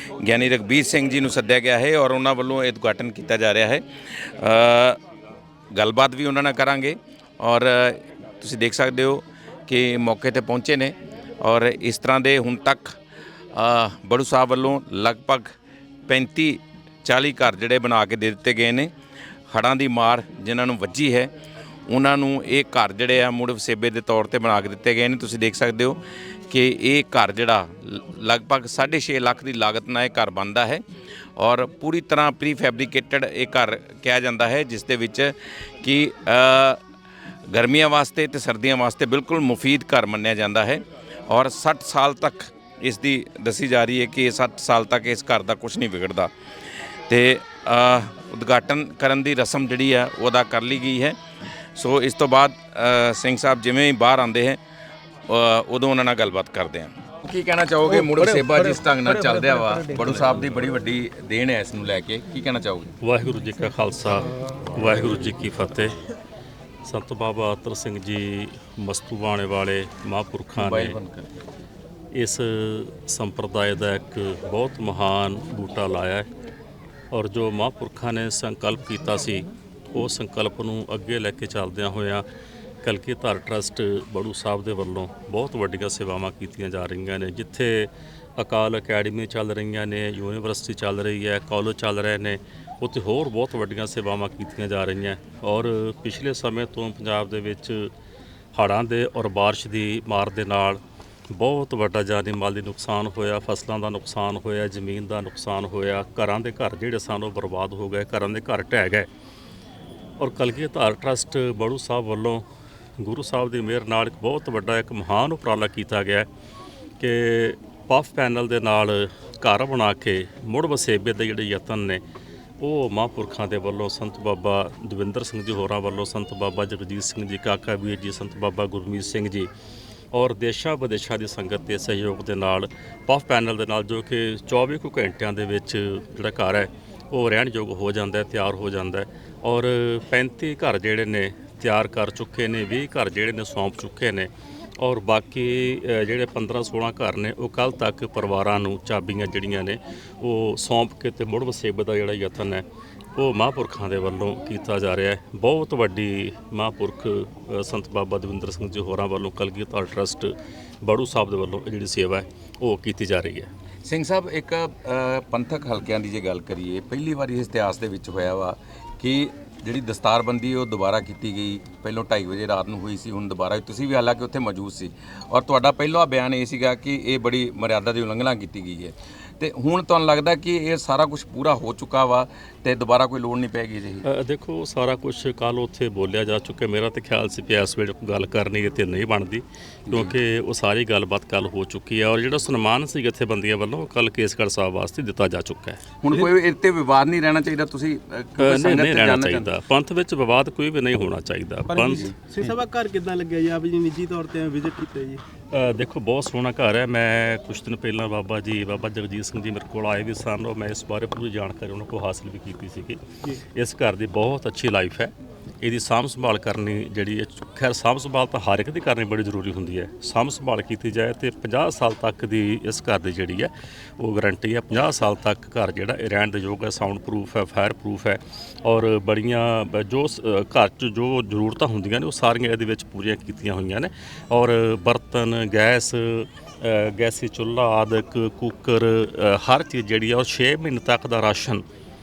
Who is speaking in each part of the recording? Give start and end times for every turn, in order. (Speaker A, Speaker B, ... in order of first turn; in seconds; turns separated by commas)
Speaker A: 0.2-5.0, Speaker A: 5.7-13.0, Speaker A: 13.5-15.5, Speaker A: 16.1-18.9, Speaker A: 19.5-21.3, Speaker A: 21.9-30.8, Speaker A: 31.4-36.8, Speaker A: 37.5-46.3, Speaker A: 47.1-51.1, Speaker A: 51.8-54.6, Speaker A: 55.3-62.9, Speaker B: 58.2-58.4, Speaker B: 59.0-59.8, Speaker C: 63.0-66.0, Speaker C: 66.8-71.0, Speaker A: 70.5-71.3, Speaker C: 72.1-76.3, Speaker C: 77.1-82.2, Speaker C: 82.8-97.9, Speaker C: 98.5-100.8, Speaker C: 101.3-109.1, Speaker C: 110.2-112.4, Speaker C: 113.0-116.3, Speaker C: 117.0-122.0, Speaker C: 122.6-129.5, Speaker C: 130.1-144.3, Speaker C: 144.8-152.6, Speaker C: 153.2-163.5, Speaker A: 163.8-184.1, Speaker C: 184.0-195.8, Speaker A: 189.9-190.1, Speaker A: 196.0-199.5, Speaker C: 198.4-202.1, Speaker B: 201.7-205.2, Speaker A: 201.9-202.5, Speaker C: 205.5-213.0, Speaker C: 213.5-241.6